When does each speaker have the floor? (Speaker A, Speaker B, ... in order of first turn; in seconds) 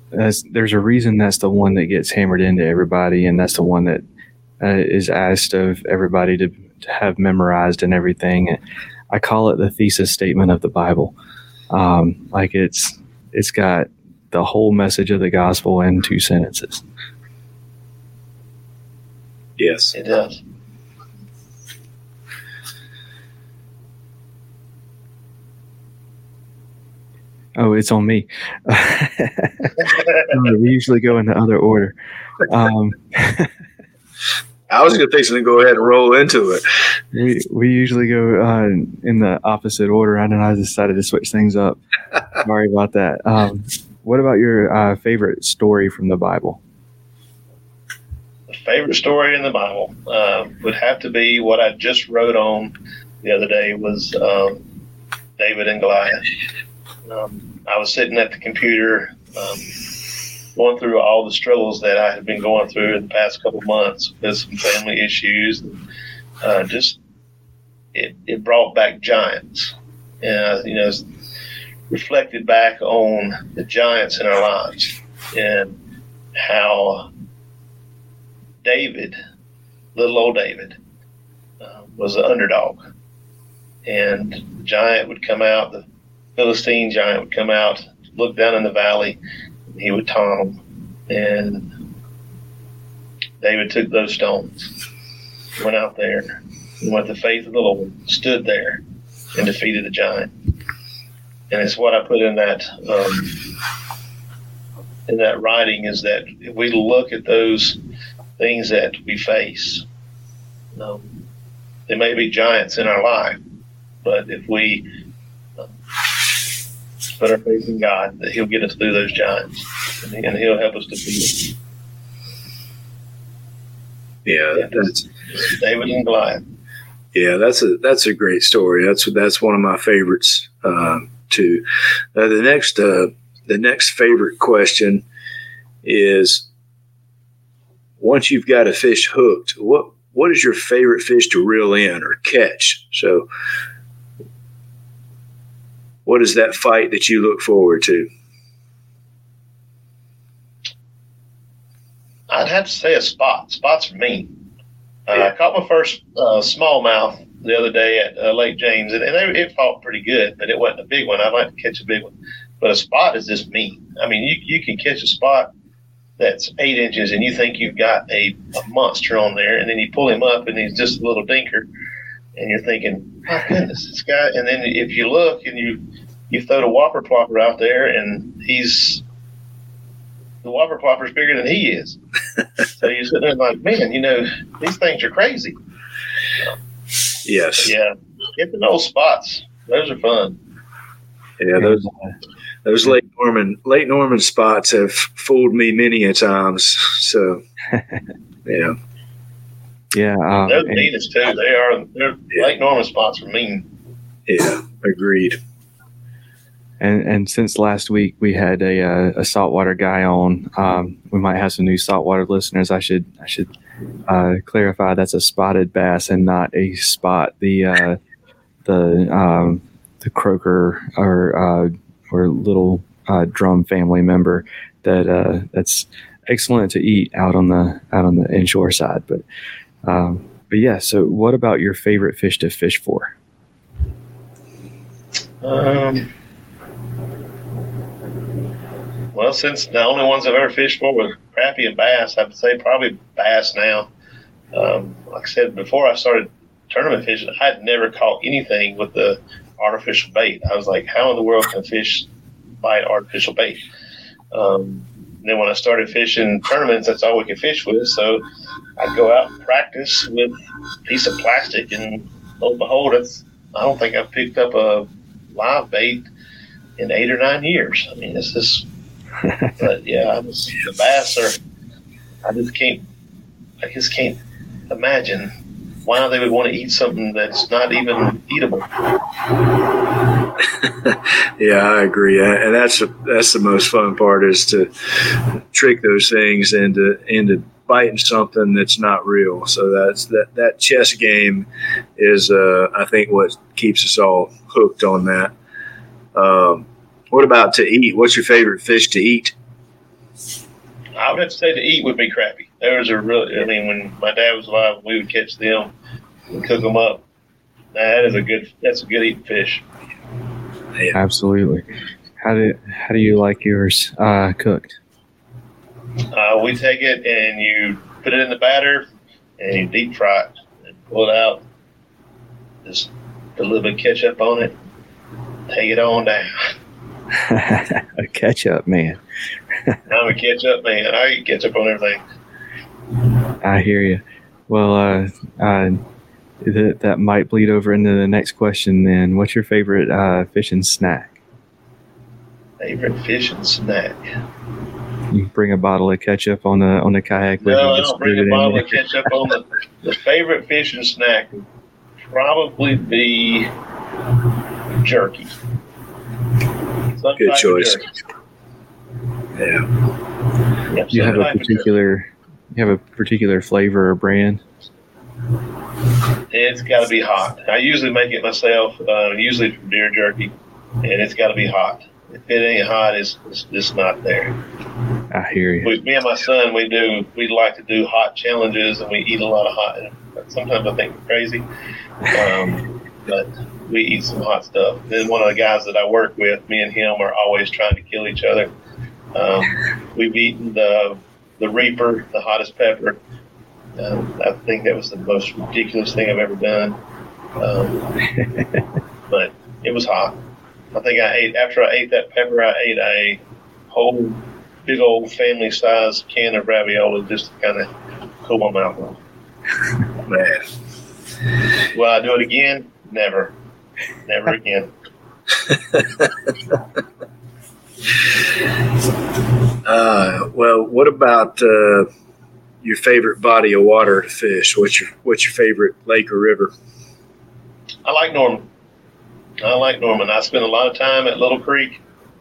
Speaker A: 0.1-4.0, 4.6-8.6, 9.1-11.1, 11.7-16.8, 27.6-31.9, 32.5-33.5, 37.1-41.8, 42.4-46.6, 191.6-192.1, 197.7-198.0, 199.9-200.9, 206.8-213.5, 214.1-218.0, 218.7-229.2, 229.8-233.1, 269.2-269.5, 310.9-311.6, 312.2-314.8, 327.1-329.0, 333.4-335.8, 336.4-341.2, 345.1-348.8, 360.9-364.4, 375.1-375.8, 398.2-398.6
Speaker B: 19.6-19.9, 34.7-36.6, 124.3-125.0, 127.1-131.6, 132.2-135.0, 135.8-136.4, 138.0-143.3, 146.1-148.1, 187.2-187.7, 191.4-191.9, 192.7-197.4, 198.5-198.8, 204.3-205.4, 280.4-295.3, 296.1-299.3, 357.2-357.8, 359.4-359.7, 410.1-410.4, 419.6-421.9, 422.6-426.5
Speaker C: 19.9-20.4, 29.9-30.3, 48.5-54.6, 55.4-56.2, 57.0-59.8, 60.5-65.8, 66.4-67.0, 67.9-71.0, 71.9-75.8, 76.4-77.1, 78.6-79.2, 80.0-80.8, 81.6-82.8, 83.8-85.8, 86.4-91.7, 93.4-94.7, 95.6-98.8, 99.3-100.3, 101.5-103.4, 105.1-107.8, 108.4-109.8, 110.8-111.1, 111.9-113.4, 114.0-114.8, 117.2-121.5, 124.5-126.4, 152.3-154.3, 155.1-165.5, 166.2-171.7, 172.4-179.0, 180.4-182.0, 182.8-185.6, 187.6-190.4, 200.4-203.7, 235.4-236.1, 239.1-243.9, 244.5-252.1, 252.6-253.6, 254.3-258.2, 258.8-260.4, 260.9-266.1, 266.8-268.7, 269.6-271.4, 272.2-272.9, 273.6-275.3, 275.8-278.7, 301.0-305.7, 306.3-307.0, 307.7-309.6, 316.1-318.9, 319.4-320.3, 320.9-321.4, 322.6-324.6, 325.5-326.5, 329.9-332.0, 342.6-344.2, 347.4-351.4, 352.1-353.5, 354.8-355.4, 357.0-357.9, 360.7-361.7, 366.3-374.4, 375.6-381.5, 382.1-388.5, 389.1-393.0, 393.8-396.8, 397.4-397.9, 399.1-400.2, 400.7-407.7, 408.2-409.0, 411.7-413.3, 414.1-414.7, 427.9-428.5, 429.4-431.8